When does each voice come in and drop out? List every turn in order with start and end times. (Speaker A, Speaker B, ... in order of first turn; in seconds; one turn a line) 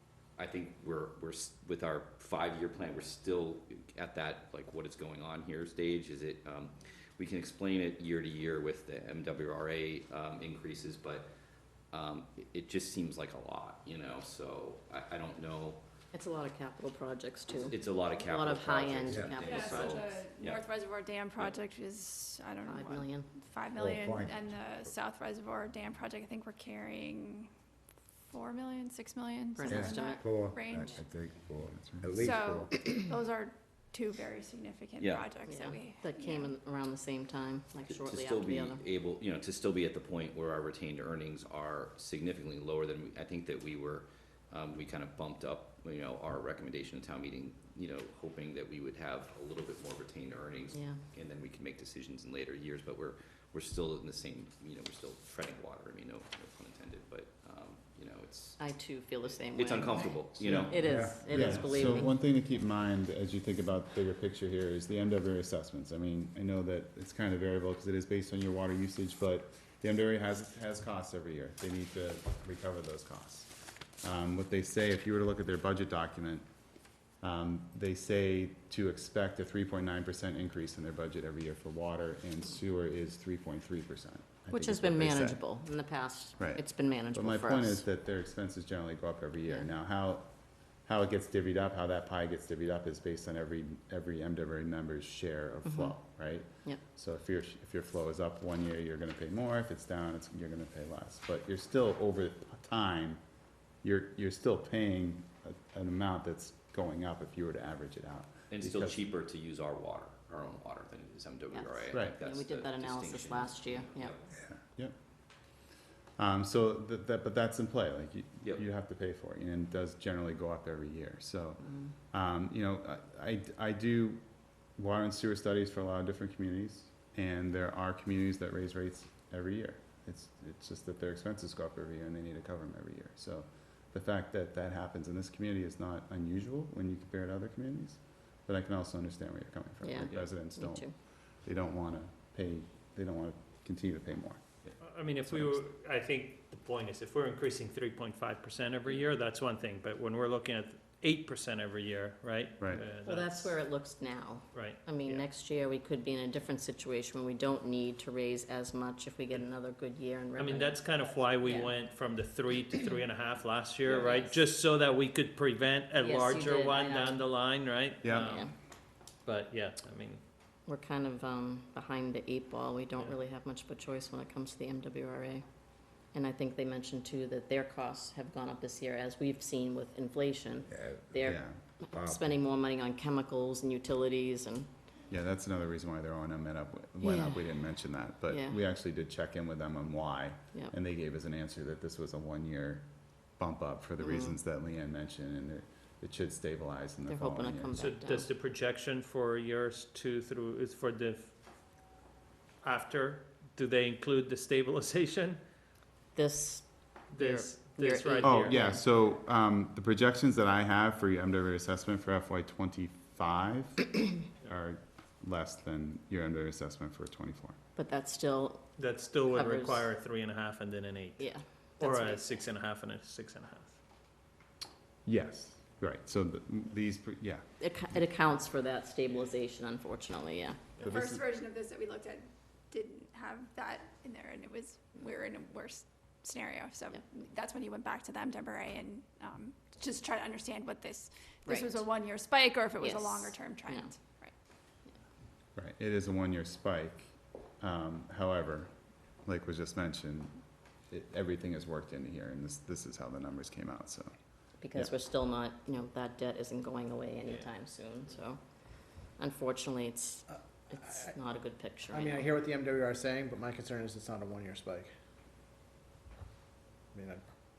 Speaker A: 0.4-11.3
Speaker A: 11.9-15.8
Speaker B: 16.1-19.6
Speaker A: 17.5-20.7
Speaker C: 19.3-27.5
Speaker B: 22.6-23.3
Speaker D: 23.9-24.3
Speaker C: 28.3-31.1
Speaker B: 29.6-30.2
Speaker D: 29.7-32.7
Speaker E: 31.6-32.1
Speaker C: 32.1-36.5
Speaker A: 35.0-35.3
Speaker B: 35.4-38.8
Speaker A: 37.9-58.6
Speaker B: 50.7-51.0
Speaker B: 58.6-62.1
Speaker A: 59.3-60.9
Speaker E: 60.4-76.5
Speaker D: 60.9-61.6
Speaker E: 77.2-85.4
Speaker B: 84.5-87.8
Speaker E: 86.4-90.3
Speaker E: 90.9-103.2
Speaker B: 95.7-96.0
Speaker E: 103.8-109.0
Speaker A: 108.5-114.3
Speaker B: 111.5-114.1
Speaker E: 116.2-124.2
Speaker B: 121.6-121.9
Speaker E: 124.8-144.7
Speaker B: 139.8-140.9
Speaker F: 144.8-153.6
Speaker E: 145.3-145.6
Speaker E: 152.6-152.8
Speaker B: 153.0-161.8
Speaker F: 154.5-155.2
Speaker F: 160.4-168.5
Speaker B: 163.9-164.3
Speaker B: 166.0-167.2
Speaker E: 168.0-168.4
Speaker B: 168.2-168.5
Speaker F: 169.3-170.2
Speaker B: 170.7-175.4
Speaker B: 176.1-184.7
Speaker D: 180.7-181.1
Speaker E: 181.2-181.6
Speaker D: 181.9-182.3
Speaker E: 185.1-192.9
Speaker B: 187.0-187.4
Speaker B: 188.3-188.6
Speaker E: 193.4-197.8
Speaker B: 194.0-194.4
Speaker B: 197.1-198.3
Speaker F: 197.8-201.3
Speaker F: 202.6-205.4
Speaker B: 206.2-208.8
Speaker F: 207.1-208.6
Speaker E: 208.2-217.6
Speaker B: 217.8-218.7
Speaker F: 218.8-223.8
Speaker B: 219.3-219.9
Speaker B: 221.2-222.4
Speaker E: 225.1-227.5
Speaker B: 227.6-230.8
Speaker C: 230.8-244.3
Speaker E: 230.8-231.2
Speaker B: 241.5-241.8
Speaker B: 242.8-243.9
Speaker E: 245.6-248.7
Speaker E: 249.2-254.1
Speaker B: 254.6-258.4
Speaker B: 259.2-262.3
Speaker G: 260.7-261.2
Speaker G: 261.9-264.9
Speaker G: 266.9-267.2